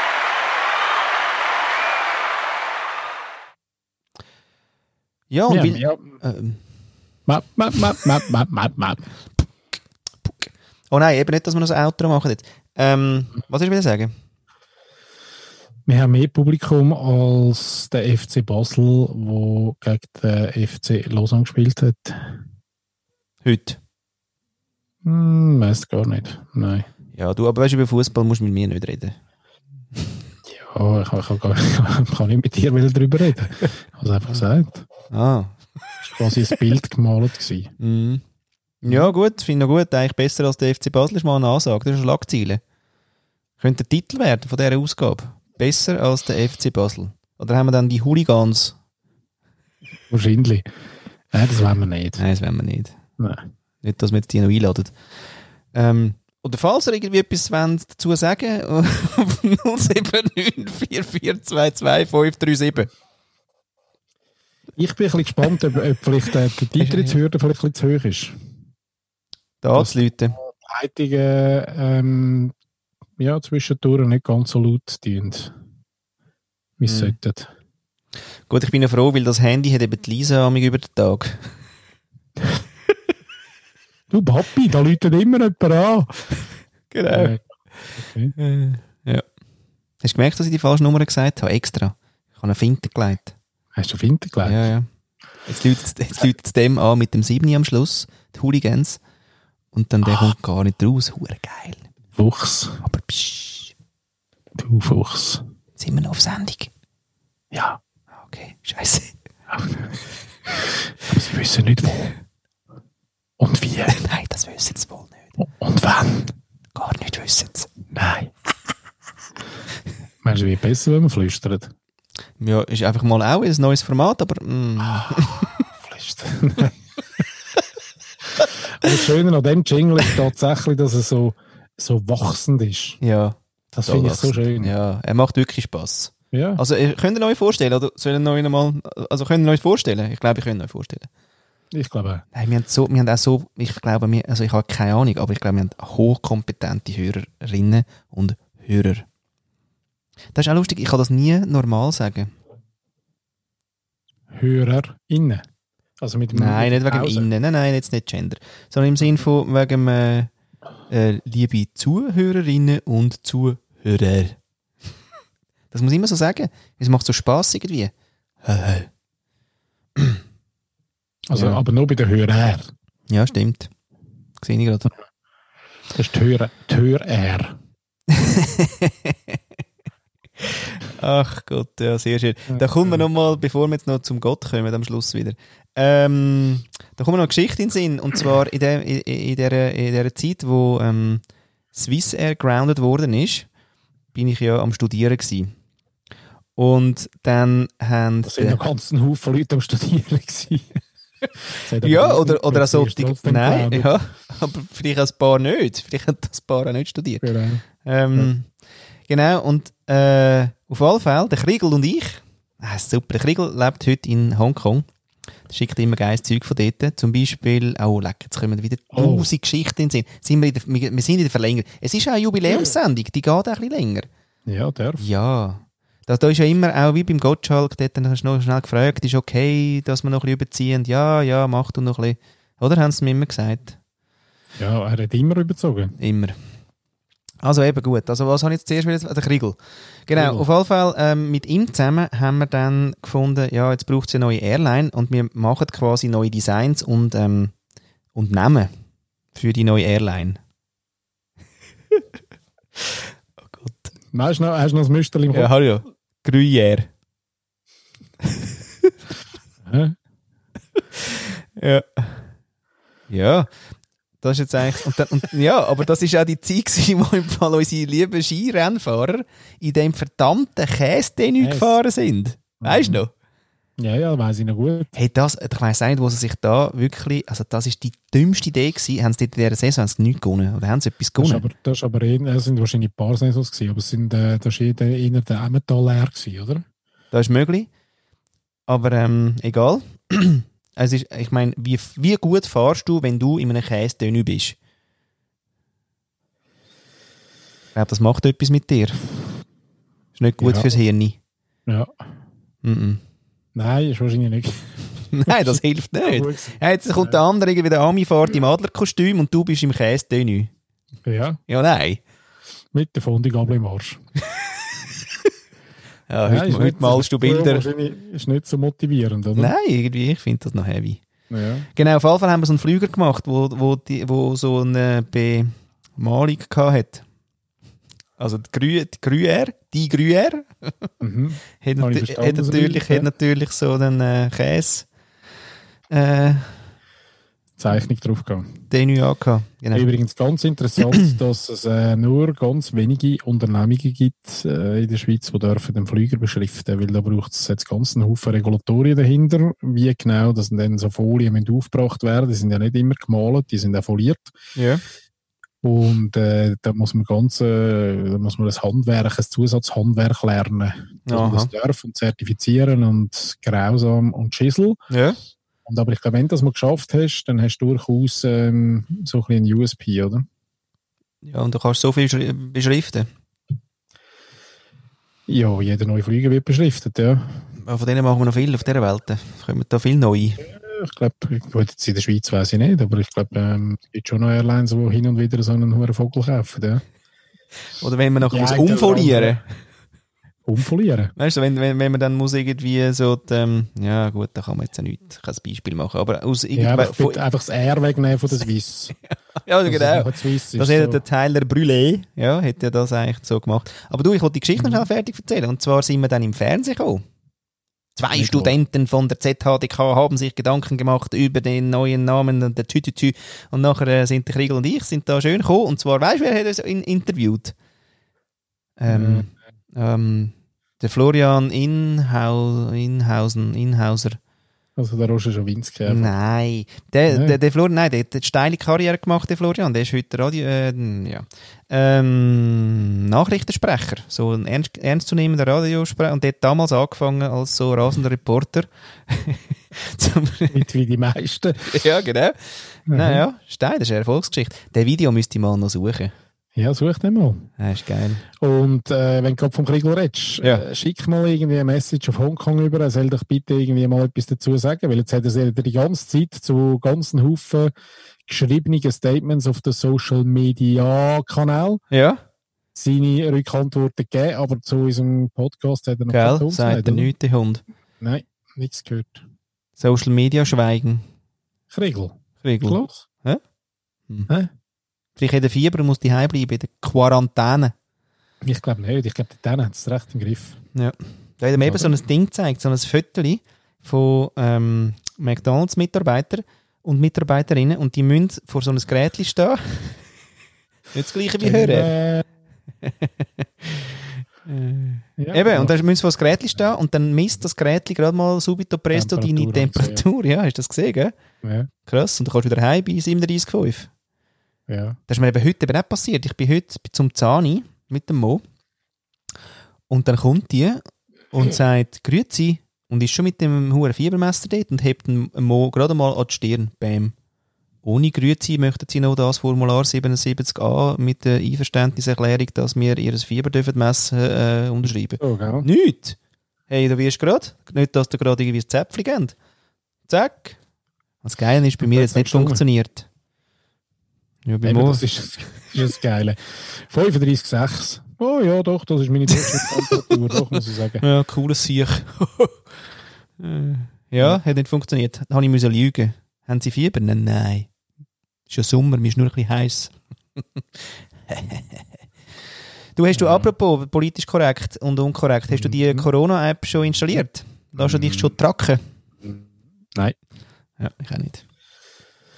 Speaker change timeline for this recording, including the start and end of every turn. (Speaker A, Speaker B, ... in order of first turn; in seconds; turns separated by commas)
Speaker A: 5.3-6.6, Speaker B: 5.5-6.1, Speaker B: 7.3-9.1, Speaker A: 10.2-14.1, Speaker B: 15.8-22.4, Speaker A: 23.4-23.8, Speaker B: 25.0-26.9, Speaker A: 27.1-29.1, Speaker B: 30.5-34.9, Speaker A: 35.1-35.6, Speaker B: 36.0-37.7, Speaker A: 37.8-38.2, Speaker A: 38.8-42.6, Speaker B: 38.9-39.1, Speaker A: 43.6-48.8, Speaker B: 50.1-50.7, Speaker B: 51.3-52.2, Speaker A: 52.2-53.0, Speaker A: 53.8-54.9, Speaker A: 55.7-62.9, Speaker B: 64.8-68.3, Speaker A: 66.8-67.2, Speaker A: 69.6-70.3, Speaker B: 69.7-72.5, Speaker B: 73.2-75.5, Speaker B: 76.8-77.5, Speaker A: 76.8-77.1, Speaker A: 78.5-81.5, Speaker B: 84.1-86.2, Speaker A: 86.9-87.3, Speaker B: 87.1-87.4, Speaker B: 88.0-88.3, Speaker A: 88.4-89.2, Speaker A: 90.0-93.3, Speaker B: 93.8-94.7, Speaker A: 94.4-94.9, Speaker A: 95.5-99.0, Speaker A: 99.7-101.8, Speaker B: 102.2-102.8, Speaker A: 102.8-103.7, Speaker B: 104.5-105.4, Speaker A: 105.8-106.7, Speaker B: 107.5-107.8, Speaker A: 108.2-109.1, Speaker B: 109.5-112.1, Speaker B: 113.4-114.0, Speaker A: 113.9-115.2, Speaker B: 115.4-116.3, Speaker A: 116.7-117.7, Speaker B: 117.9-118.3, Speaker B: 120.2-121.7, Speaker A: 122.4-125.6, Speaker B: 125.8-126.7, Speaker B: 128.7-133.0, Speaker A: 133.0-141.1, Speaker B: 133.7-134.7, Speaker B: 136.3-136.6, Speaker B: 141.7-142.2, Speaker A: 142.3-149.1, Speaker A: 150.3-152.3, Speaker B: 154.3-155.4, Speaker B: 156.0-157.3, Speaker A: 156.3-160.3, Speaker A: 160.9-164.4, Speaker A: 165.7-167.9, Speaker A: 168.4-168.9, Speaker B: 171.3-172.7, Speaker A: 171.3-171.6, Speaker A: 173.1-173.7, Speaker A: 174.4-174.9, Speaker B: 175.9-177.6, Speaker A: 178.1-179.4, Speaker A: 180.5-193.5, Speaker B: 182.5-183.0, Speaker A: 194.1-195.5, Speaker A: 196.6-198.6, Speaker B: 198.2-200.8, Speaker B: 201.6-203.9, Speaker A: 201.8-207.2, Speaker B: 207.2-207.6, Speaker A: 207.8-208.5, Speaker A: 209.1-214.8, Speaker A: 215.5-224.1, Speaker B: 218.9-219.3, Speaker B: 224.4-225.0, Speaker A: 225.0-233.8, Speaker B: 234.6-235.9, Speaker A: 236.0-236.3, Speaker A: 237.4-247.5, Speaker B: 240.1-240.5, Speaker A: 248.1-248.7, Speaker A: 249.3-250.4, Speaker A: 252.8-253.9, Speaker B: 254.1-255.5, Speaker A: 255.3-256.9, Speaker B: 259.6-259.9, Speaker A: 261.0-262.2, Speaker A: 263.1-263.5, Speaker A: 264.2-273.1, Speaker B: 271.4-271.8, Speaker B: 272.6-273.0, Speaker B: 273.8-274.9, Speaker A: 274.9-281.4, Speaker B: 281.2-286.6, Speaker A: 287.1-287.7, Speaker A: 288.7-294.6, Speaker A: 297.7-299.0, Speaker A: 300.1-301.2, Speaker B: 300.4-300.7, Speaker B: 301.6-301.9, Speaker A: 302.6-303.0, Speaker B: 303.5-307.2, Speaker A: 305.1-310.5, Speaker B: 311.0-311.4, Speaker A: 311.5-312.0, Speaker B: 312.7-314.0, Speaker A: 316.1-317.7, Speaker B: 316.2-319.5, Speaker A: 319.4-321.0, Speaker B: 321.3-321.7, Speaker A: 321.8-327.0, Speaker A: 328.2-330.7, Speaker B: 331.0-333.1, Speaker A: 331.6-334.9, Speaker A: 335.9-336.5, Speaker B: 337.6-338.5, Speaker A: 338.7-339.9, Speaker B: 339.7-354.3, Speaker A: 354.6-354.8, Speaker B: 355.6-364.8, Speaker A: 361.1-361.5, Speaker A: 364.9-365.2, Speaker B: 365.6-370.2, Speaker A: 371.2-373.1, Speaker B: 375.3-377.4, Speaker A: 377.6-380.4, Speaker B: 380.4-386.8, Speaker A: 387.8-389.4, Speaker B: 388.2-389.4, Speaker B: 390.4-391.1, Speaker A: 391.2-397.2, Speaker B: 396.5-398.9, Speaker A: 399.0-407.0, Speaker B: 399.6-401.0, Speaker B: 404.6-404.9, Speaker A: 407.9-417.5, Speaker B: 408.1-408.5, Speaker A: 418.8-424.2, Speaker B: 418.9-419.3, Speaker B: 424.8-426.1, Speaker A: 425.9-440.6, Speaker B: 427.1-427.4, Speaker B: 440.5-441.8, Speaker A: 441.6-446.1, Speaker B: 442.9-443.2, Speaker B: 446.6-447.5, Speaker A: 447.6-448.2, Speaker B: 448.3-457.7, Speaker B: 458.2-461.8, Speaker A: 461.9-462.2, Speaker B: 462.7-467.1, Speaker A: 466.1-467.6, Speaker B: 468.0-469.2, Speaker A: 469.8-471.0, Speaker B: 471.7-473.0, Speaker A: 472.4-473.4, Speaker A: 475.2-477.7, Speaker B: 478.4-480.6, Speaker A: 480.7-490.0, Speaker B: 481.6-482.0, Speaker A: 490.9-491.9, Speaker B: 491.4-492.3, Speaker A: 492.8-493.9, Speaker A: 494.4-501.1, Speaker B: 495.2-495.7, Speaker B: 498.9-500.0, Speaker B: 501.4-501.7, Speaker A: 501.9-503.9, Speaker B: 504.7-505.0, Speaker A: 505.1-508.4, Speaker A: 509.9-517.1, Speaker A: 517.8-526.2, Speaker B: 525.2-525.7, Speaker A: 526.7-529.3, Speaker A: 530.1-530.6, Speaker A: 531.2-533.1, Speaker B: 531.9-532.6, Speaker A: 534.5-535.0, Speaker B: 534.6-541.0, Speaker A: 539.3-540.0, Speaker A: 541.0-542.6, Speaker A: 543.4-547.7, Speaker A: 548.5-549.9, Speaker A: 551.3-551.8, Speaker A: 553.0-558.8, Speaker B: 553.1-553.5, Speaker B: 555.5-556.1, Speaker B: 557.8-558.3, Speaker A: 560.8-561.4